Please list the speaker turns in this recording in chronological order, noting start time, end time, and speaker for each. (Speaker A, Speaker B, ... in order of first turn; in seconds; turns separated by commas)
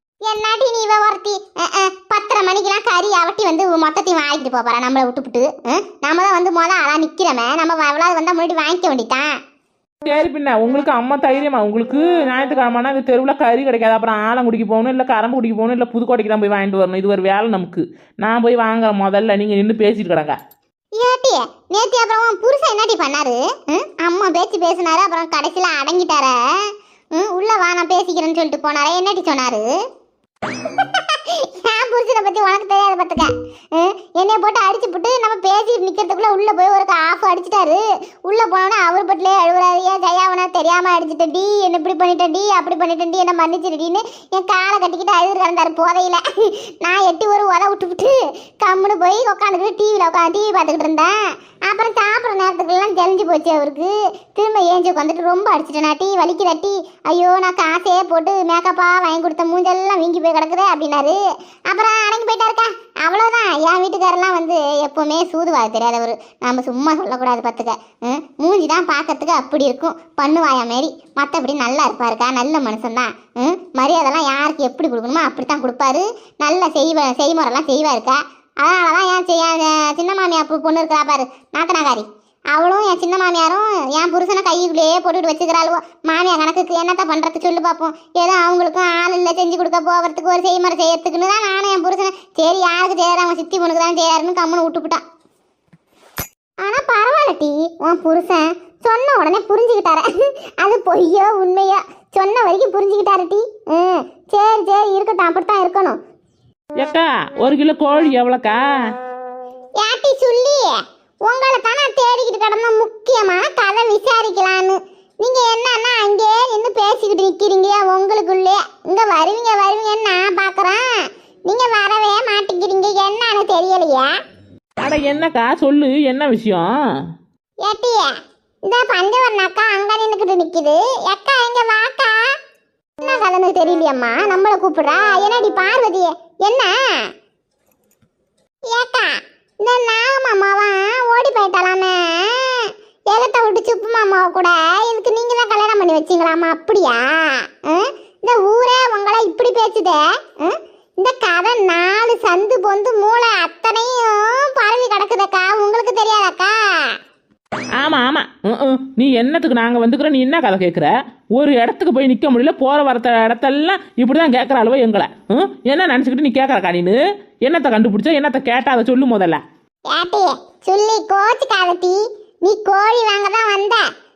Speaker A: 0.3-9.3, Speaker B: 10.1-20.4, Speaker A: 21.0-26.4, Speaker A: 27.1-29.7, Speaker A: 30.5-46.2, Speaker A: 46.8-51.1, Speaker A: 51.7-61.2, Speaker A: 61.7-95.0, Speaker A: 96.6-106.0, Speaker B: 106.8-108.6, Speaker A: 109.8-110.7, Speaker A: 111.3-120.8, Speaker A: 121.5-124.1, Speaker B: 124.8-126.7, Speaker A: 127.6-128.1, Speaker A: 128.7-132.2, Speaker A: 133.0-136.7, Speaker A: 138.7-156.6, Speaker B: 157.8-169.4, Speaker A: 169.9-173.8